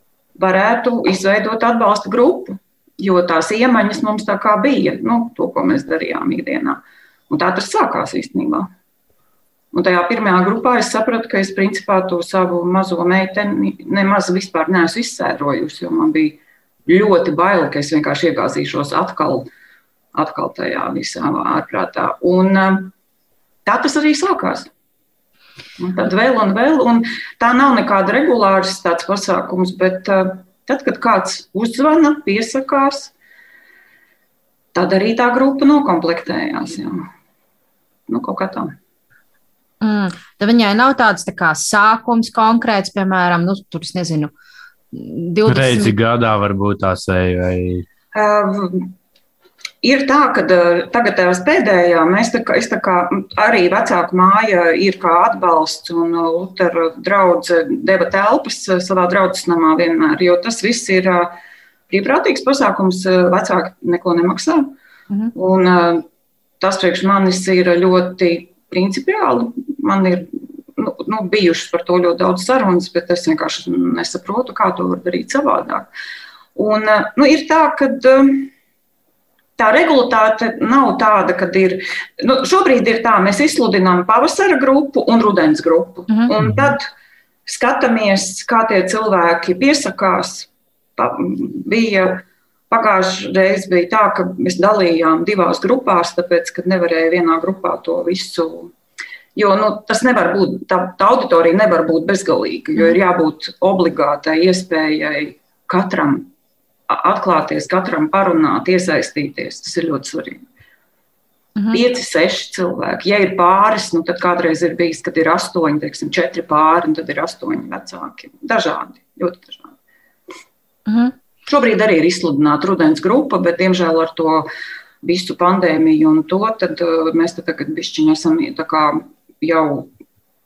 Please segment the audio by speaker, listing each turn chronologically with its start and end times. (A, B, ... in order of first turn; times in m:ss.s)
0:00.4-0:08.7 A
0:09.7-0:19.5 A
0:20.1-0:22.9 A
0:23.6-0:24.7 A
0:25.8-0:33.1 A
0:34.7-0:37.0 A
0:38.1-0:38.7 A
0:39.8-0:44.3 B
0:44.9-0:45.9 B
0:45.5-0:47.8 C
0:48.1-0:48.9 A
0:49.8-1:01.3 A
1:01.9-1:04.7 A
1:05.3-1:06.0 A
1:06.6-1:15.9 A
1:16.5-1:18.5 A
1:19.6-1:26.9 A
1:27.5-1:38.7 A
1:39.3-1:46.3 A
1:46.9-1:50.4 A
1:51.7-1:59.7 A
2:00.9-2:01.1 B
2:01.4-2:04.5 A
2:05.0-2:09.9 A